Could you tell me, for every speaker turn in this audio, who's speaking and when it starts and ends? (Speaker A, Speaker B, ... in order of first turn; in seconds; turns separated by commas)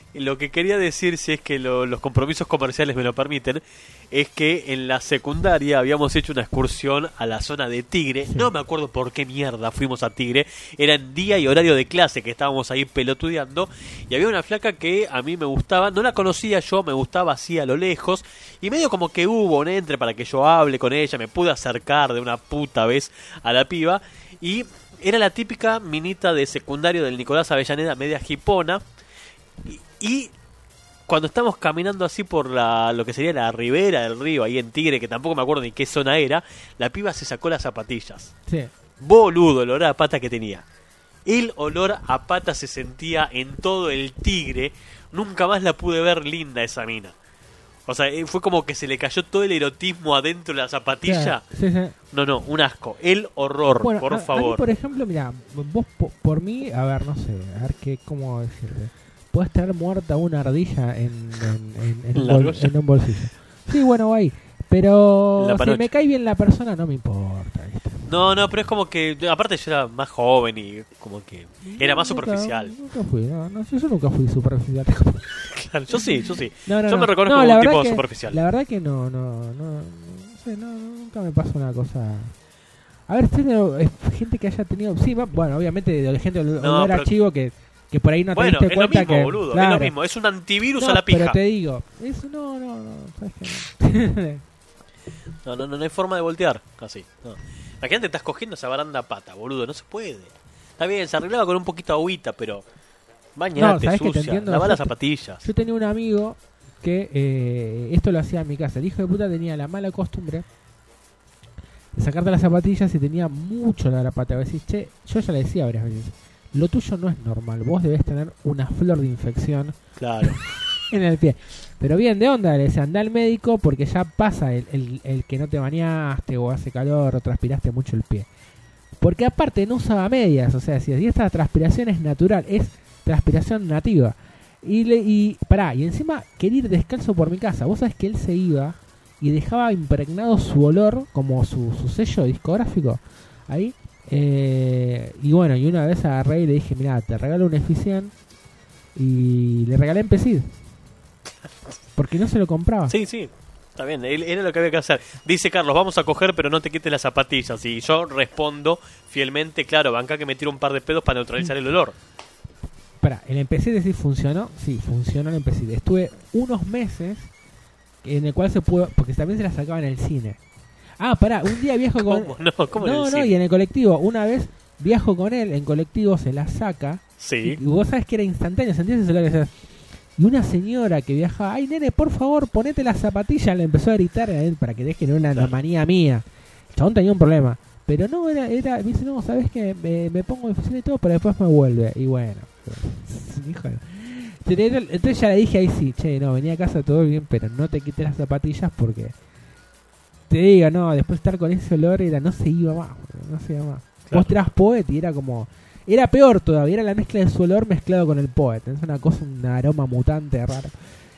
Speaker A: 0.1-28.8, Speaker B: 8.2-8.5, Speaker A: 29.6-30.3, Speaker A: 31.1-38.3, Speaker A: 39.0-40.6, Speaker A: 41.3-47.1, Speaker A: 47.9-51.4, Speaker B: 51.0-52.0, Speaker A: 52.1-54.6, Speaker B: 53.8-68.1, Speaker A: 62.1-62.8, Speaker A: 65.4-65.9, Speaker A: 68.1-72.7, Speaker B: 71.6-75.3, Speaker A: 75.5-78.4, Speaker B: 76.7-82.3, Speaker B: 83.1-89.9, Speaker A: 86.6-87.1, Speaker A: 88.3-91.4, Speaker B: 90.8-94.4, Speaker A: 95.5-102.7, Speaker A: 103.4-105.4, Speaker B: 103.6-104.9, Speaker B: 105.4-110.5, Speaker B: 111.9-120.4, Speaker A: 120.0-120.5, Speaker B: 120.9-128.3, Speaker B: 129.0-148.1, Speaker B: 148.9-150.5, Speaker B: 152.0-152.9, Speaker A: 152.9-161.9, Speaker B: 163.0-167.3, Speaker B: 168.0-170.4, Speaker B: 171.0-179.5, Speaker A: 172.0-173.3, Speaker A: 177.2-177.6, Speaker B: 180.2-199.2, Speaker B: 200.3-210.8, Speaker A: 204.1-204.5